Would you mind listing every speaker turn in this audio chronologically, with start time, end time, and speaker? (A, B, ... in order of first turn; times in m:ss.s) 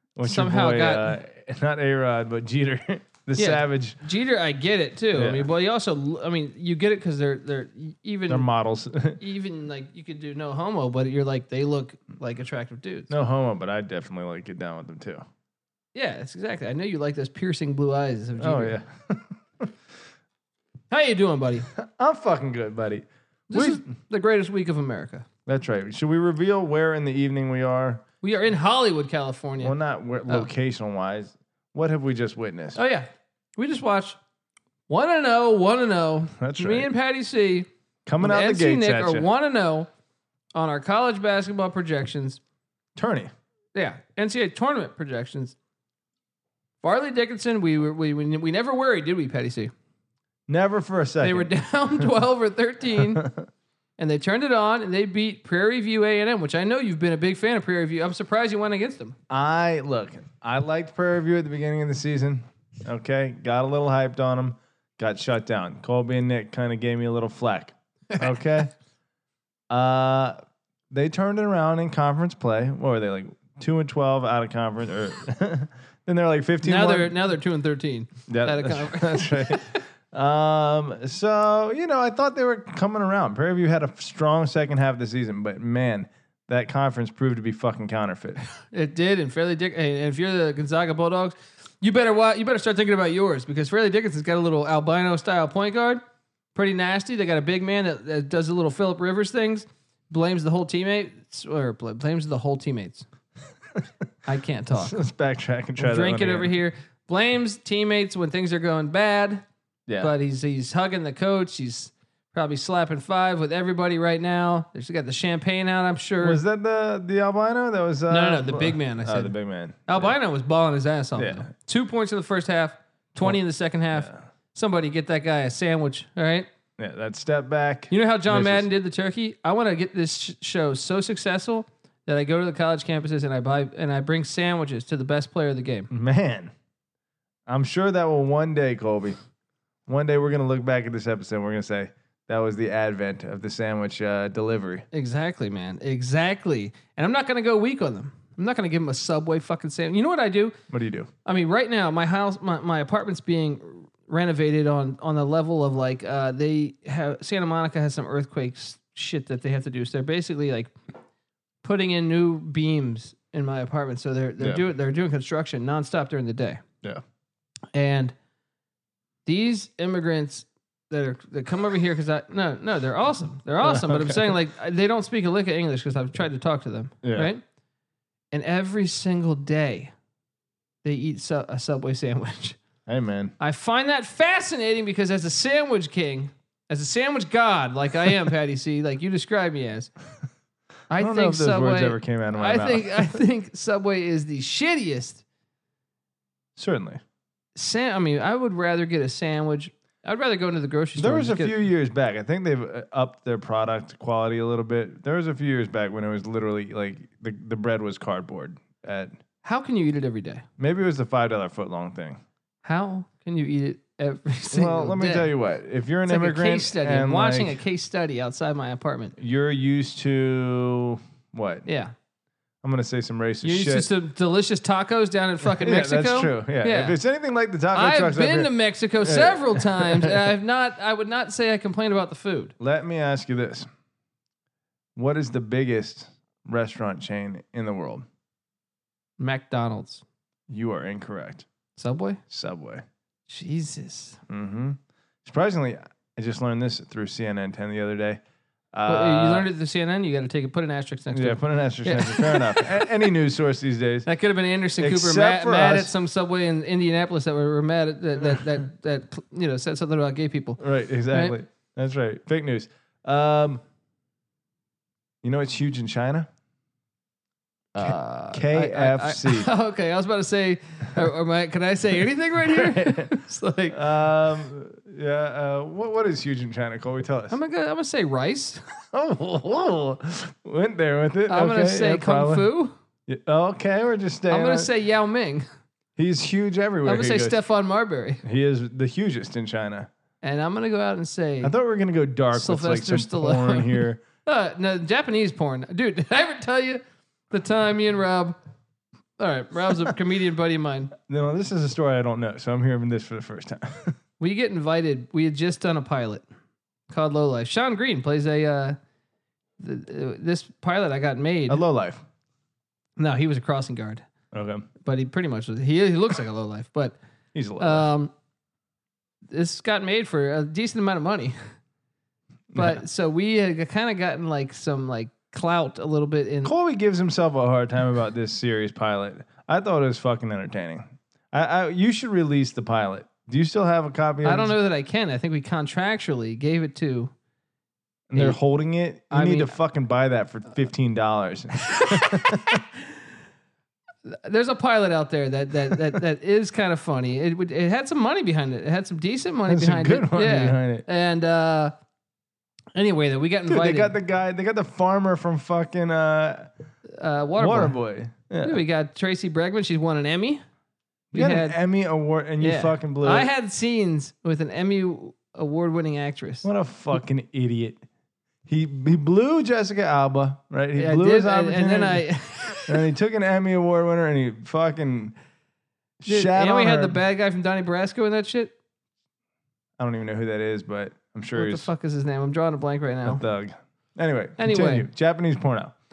0:00.2-0:04.0 A
0:00.2-0:01.2 B
0:03.4-0:08.5 B
0:05.2-0:05.5 A
0:08.3-0:09.2 A
0:09.2-0:13.1 B
0:13.1-0:15.2 A
0:16.0-0:18.8 B
0:18.4-0:19.7 A
0:20.9-0:21.7 B
0:21.8-0:23.8 A
0:23.5-0:25.3 B
0:25.5-0:28.0 A
0:28.2-0:29.8 B
0:29.6-0:32.8 A
0:32.8-0:34.2 B
0:34.9-0:37.7 B
0:36.4-0:36.9 A
0:38.1-0:39.3 A
0:38.2-0:39.9 B
0:40.5-0:42.4 B
0:43.0-0:43.3 A
0:43.8-0:45.6 B
0:46.8-0:49.7 B
0:50.5-0:52.1 A
0:51.2-0:53.3 B
0:53.2-0:53.4 A
0:54.0-0:59.2 B
0:59.3-1:08.7 A
1:09.7-1:10.4 A
1:10.9-1:17.2 A
1:16.6-1:19.8 B
1:18.3-1:28.4 A
1:28.7-1:36.0 B
1:36.6-1:43.0 B
1:44.2-1:45.0 B
1:44.7-1:46.5 A
1:45.8-1:49.4 B
1:49.9-1:50.1 A
1:50.0-1:56.4 B
1:56.2-2:00.2 A
1:58.1-1:59.3 B
1:59.9-2:06.5 B
2:01.2-2:01.5 A
2:06.8-2:08.7 A
2:07.9-2:15.9 B
2:15.9-2:16.5 A
2:17.5-2:19.2 A
2:19.9-2:24.8 A
2:24.9-2:30.6 B
2:30.7-2:31.1 A
2:31.2-2:40.7 B
2:41.6-2:46.6 B
2:47.7-2:48.1 B
2:49.2-2:57.4 B
2:53.6-2:54.4 A
2:57.0-2:57.3 A
2:58.3-2:59.9 B
3:00.8-3:02.6 B
3:02.9-3:03.3 A
3:03.4-3:09.9 B
3:10.9-3:15.2 B
3:11.0-3:13.2 A
3:16.6-3:17.0 A
3:17.6-3:21.6 B
3:21.0-3:29.1 A
3:29.4-3:30.4 B
3:30.6-3:32.2 A
3:32.6-3:35.3 B
3:34.5-3:37.6 A
3:36.1-3:39.2 B
3:39.2-3:41.7 A
3:41.7-3:41.9 B
3:42.6-3:43.9 A
3:43.4-3:47.0 B
3:45.4-3:50.2 A
3:47.7-3:52.5 B
3:52.6-3:53.7 A
3:55.0-3:58.0 A
3:59.2-4:00.0 B
4:00.5-4:01.5 A
4:01.8-4:02.2 B
4:02.3-4:02.8 A
4:03.3-4:04.2 B
4:04.3-4:08.2 A
4:08.7-4:09.5 A
4:08.9-4:12.8 B
4:11.1-4:14.1 A
4:14.1-4:20.6 B
4:14.8-4:15.9 A
4:20.6-4:23.6 A
4:21.1-4:21.4 B
4:25.2-4:26.3 A
4:27.8-4:33.8 B
4:27.8-4:29.5 A
4:32.4-4:33.1 A
4:33.7-4:37.4 A
4:37.3-4:38.6 B
4:38.9-4:42.5 A
4:41.3-4:42.7 B
4:43.1-4:44.7 A
4:44.3-4:45.5 B
4:46.0-4:47.4 A
4:46.8-4:48.2 B
4:48.2-4:49.9 A
4:50.2-4:51.5 B
4:51.4-4:54.0 A
4:52.3-4:58.4 B
4:59.2-5:00.9 B
5:01.0-5:04.0 A
5:04.2-5:06.2 B
5:06.9-5:08.8 B
5:09.6-5:11.6 B
5:11.5-5:12.0 A
5:13.0-5:14.0 B
5:14.3-5:14.7 A
5:14.8-5:17.0 B
5:17.3-5:17.9 A
5:17.6-5:18.1 B
5:19.3-5:21.4 B
5:22.5-5:22.8 A
5:22.6-5:26.5 B
5:26.4-5:34.5 A
5:34.2-5:37.1 B
5:38.1-5:42.6 A
5:39.1-5:39.5 B
5:41.8-5:42.4 B
5:44.1-5:51.7 B
5:49.5-5:50.8 A
5:52.8-5:53.9 B
5:53.5-5:56.5 A
5:56.9-5:57.8 B
5:57.4-5:58.6 A
5:58.4-6:00.4 B
6:01.1-6:03.3 A
6:01.1-6:01.6 B
6:02.4-6:06.5 B
6:06.4-6:07.8 A
6:08.5-6:12.1 A
6:10.8-6:12.8 B
6:12.6-6:15.2 A
6:16.0-6:17.0 A
6:16.1-6:18.5 B
6:19.8-6:21.7 A
6:21.4-6:23.2 B
6:23.0-6:25.7 A
6:24.4-6:24.9 B